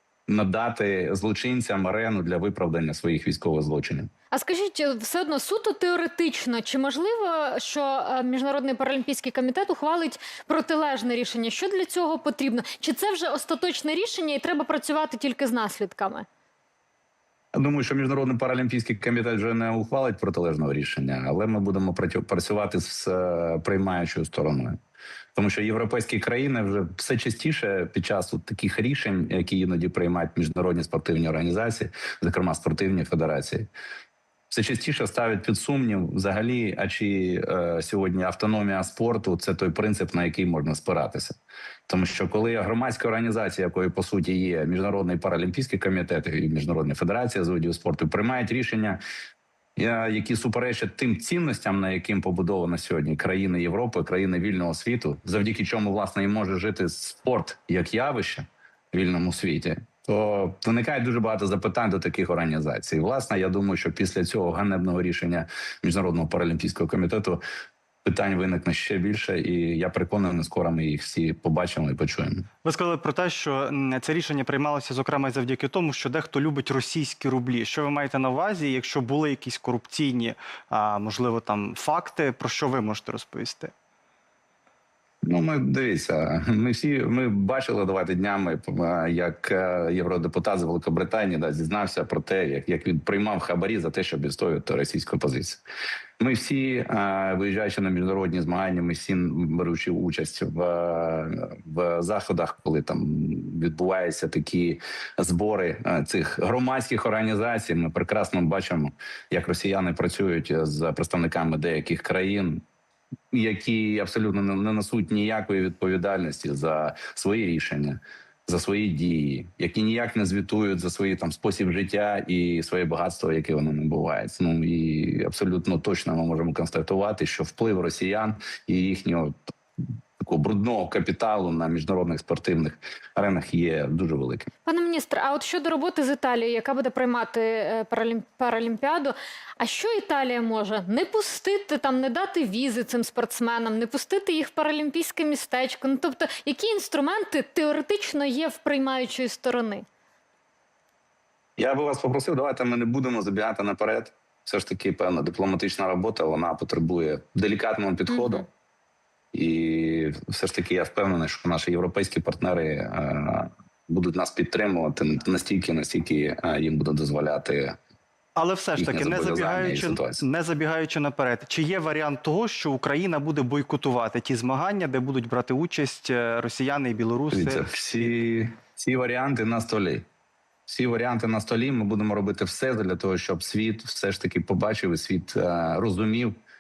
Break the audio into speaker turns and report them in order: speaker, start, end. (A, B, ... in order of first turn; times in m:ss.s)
0:00.3-0:04.1 A
0:04.3-0:16.2 B
0:17.5-0:24.8 A
0:25.4-0:33.7 A
0:34.5-0:49.0 A
0:49.8-1:07.4 A
1:08.0-1:12.4 A
1:12.6-1:23.7 C
1:25.2-1:35.6 A
1:36.2-1:52.6 A
1:53.3-2:09.4 A
2:10.2-2:14.5 A
2:14.6-2:29.8 B
2:31.6-2:38.4 A
2:38.1-2:38.4 B
2:39.3-2:47.8 A
2:48.4-2:57.6 C
2:48.8-2:50.2 A
2:57.3-3:00.1 A
3:00.7-3:06.4 A